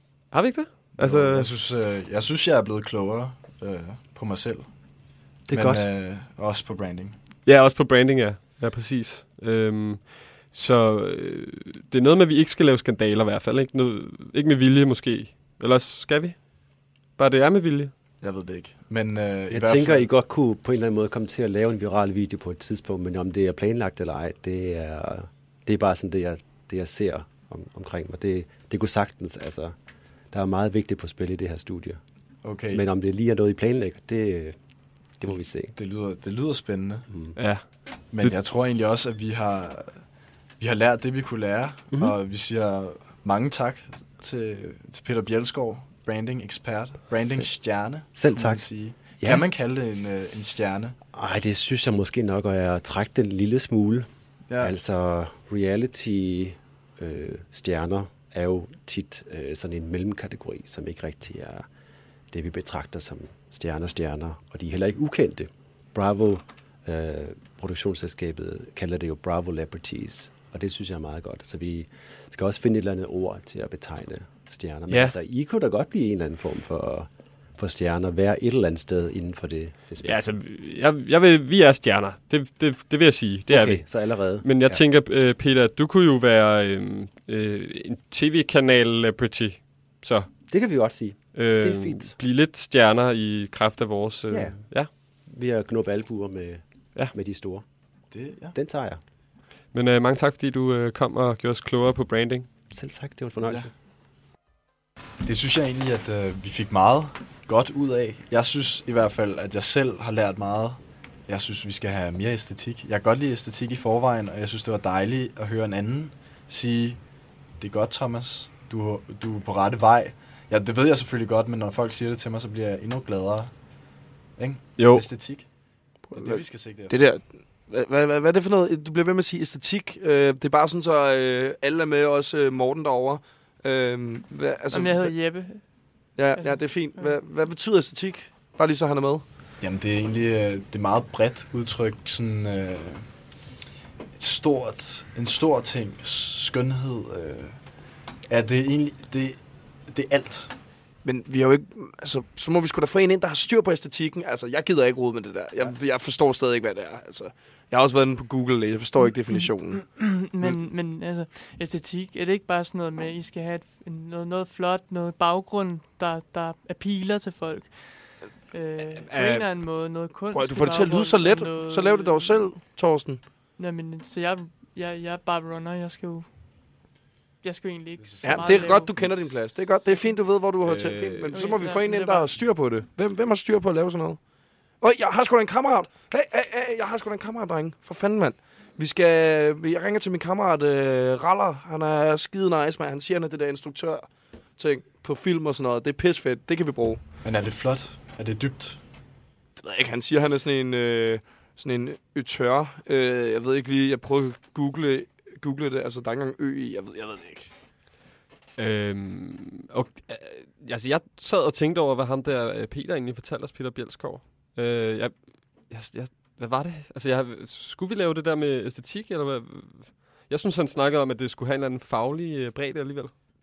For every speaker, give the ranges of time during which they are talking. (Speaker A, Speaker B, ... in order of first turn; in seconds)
Speaker A: 0.3-1.5, 7.5-17.9, 37.4-38.4, 74.9-75.1, 80.0-90.3, 91.3-94.9, 99.7-102.5, 124.8-125.1, 180.6-181.2, 208.6-223.1
Speaker B: 1.0-7.1, 18.2-20.1, 32.4-32.8, 35.7-37.1, 38.1-40.1, 40.6-51.0, 98.1-98.5, 105.2-117.0, 117.6-123.5, 124.3-125.5, 126.1-127.0, 139.6-143.2, 144.1-150.5, 178.0-178.8, 197.2-198.8
Speaker C: 5.5-5.8, 19.5-29.7, 30.3-32.0, 32.7-34.5, 35.2-35.8, 37.1-37.4, 41.9-42.1, 48.1-49.4, 51.1-54.1, 54.6-61.6, 62.3-80.2, 83.5-84.8, 90.5-92.2, 94.3-97.6, 98.5-99.0, 102.7-103.7
Speaker D: 126.0-139.3, 151.0-159.8, 168.9-173.3, 178.2-197.0, 199.6-207.5
Speaker E: 134.7-137.2, 159.7-172.9, 173.5-176.8, 177.4-180.6, 181.1-182.7